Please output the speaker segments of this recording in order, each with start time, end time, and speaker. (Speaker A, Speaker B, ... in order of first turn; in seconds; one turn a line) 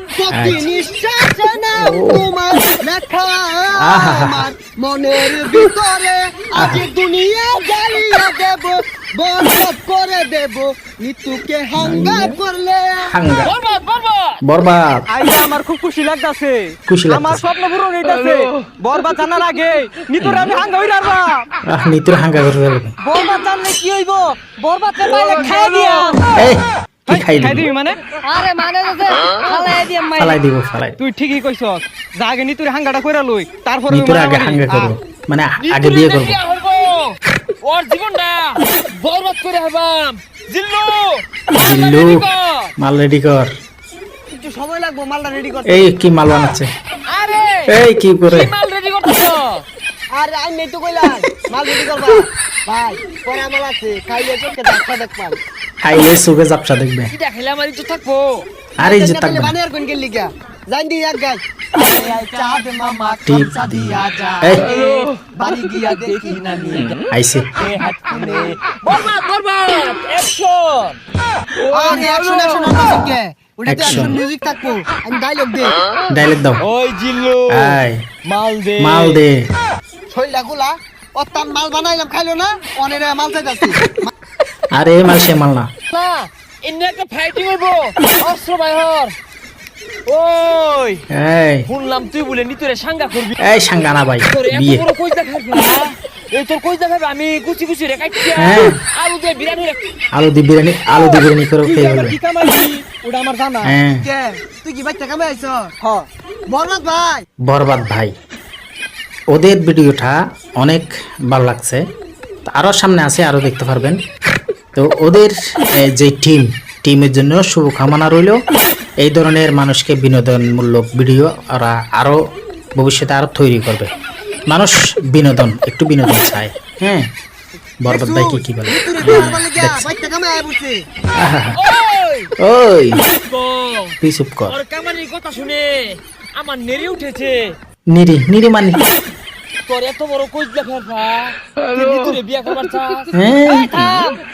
Speaker A: 0.2-13.1
Speaker B: 0.3-0.7
Speaker B: 1.8-2.3
Speaker B: 3.8-4.5
Speaker B: 6.6-6.8
Speaker B: 11.8-12.3
Speaker B: 13.0-13.5
Speaker C: 13.4-14.4
Speaker B: 14.4-15.1
Speaker D: 15.1-21.4
Speaker B: 16.9-17.4
Speaker B: 20.2-20.5
Speaker B: 21.7-22.9
Speaker D: 23.1-26.2
Speaker C: 25.2-26.1
Speaker A: 25.3-26.1
Speaker B: 26.4-27.7
Speaker D: 27.1-30.4
Speaker B: 30.2-31.0
Speaker D: 31.0-34.6
Speaker B: 33.9-36.4
Speaker C: 35.6-42.7
Speaker B: 41.6-42.2
Speaker B: 42.8-43.5
Speaker A: 44.3-45.9
Speaker B: 45.7-46.7
Speaker C: 47.1-47.7
Speaker B: 47.7-48.5
Speaker C: 48.3-49.6
Speaker A: 50.1-55.4
Speaker B: 55.9-57.1
Speaker C: 57.1-58.5
Speaker B: 58.8-59.5
Speaker A: 58.8-66.6
Speaker B: 63.3-64.7
Speaker C: 64.6-65.3
Speaker C: 66.1-67.0
Speaker B: 67.1-67.5
Speaker C: 67.6-71.0
Speaker A: 71.7-75.8
Speaker B: 73.7-74.2
Speaker B: 76.1-76.6
Speaker C: 76.6-79.2
Speaker B: 77.5-78.0
Speaker B: 78.8-79.5
Speaker A: 80.1-84.1
Speaker B: 84.8-85.7
Speaker C: 85.9-89.2
Speaker C: 90.1-91.0
Speaker B: 91.1-91.7
Speaker C: 91.7-93.4
Speaker B: 93.4-94.9
Speaker C: 94.3-99.8
Speaker B: 98.4-98.8
Speaker B: 100.2-102.2
Speaker D: 101.6-103.7
Speaker B: 103.6-104.1
Speaker A: 103.8-106.0
Speaker A: 106.5-107.2
Speaker B: 107.5-108.1
Speaker B: 109.3-111.8
Speaker B: 112.5-114.0
Speaker B: 114.8-118.4
Speaker B: 119.0-122.2
Speaker B: 122.8-123.9
Speaker B: 124.5-127.1
Speaker B: 127.8-129.9
Speaker A: 127.8-130.8
Speaker B: 131.2-131.6
Speaker C: 131.6-132.3
Speaker B: 132.4-133.0
Speaker C: 133.2-134.0
Speaker B: 134.0-134.6
Speaker C: 134.5-137.6
Speaker B: 137.9-138.8
Speaker C: 139.7-144.1
Speaker B: 143.2-143.7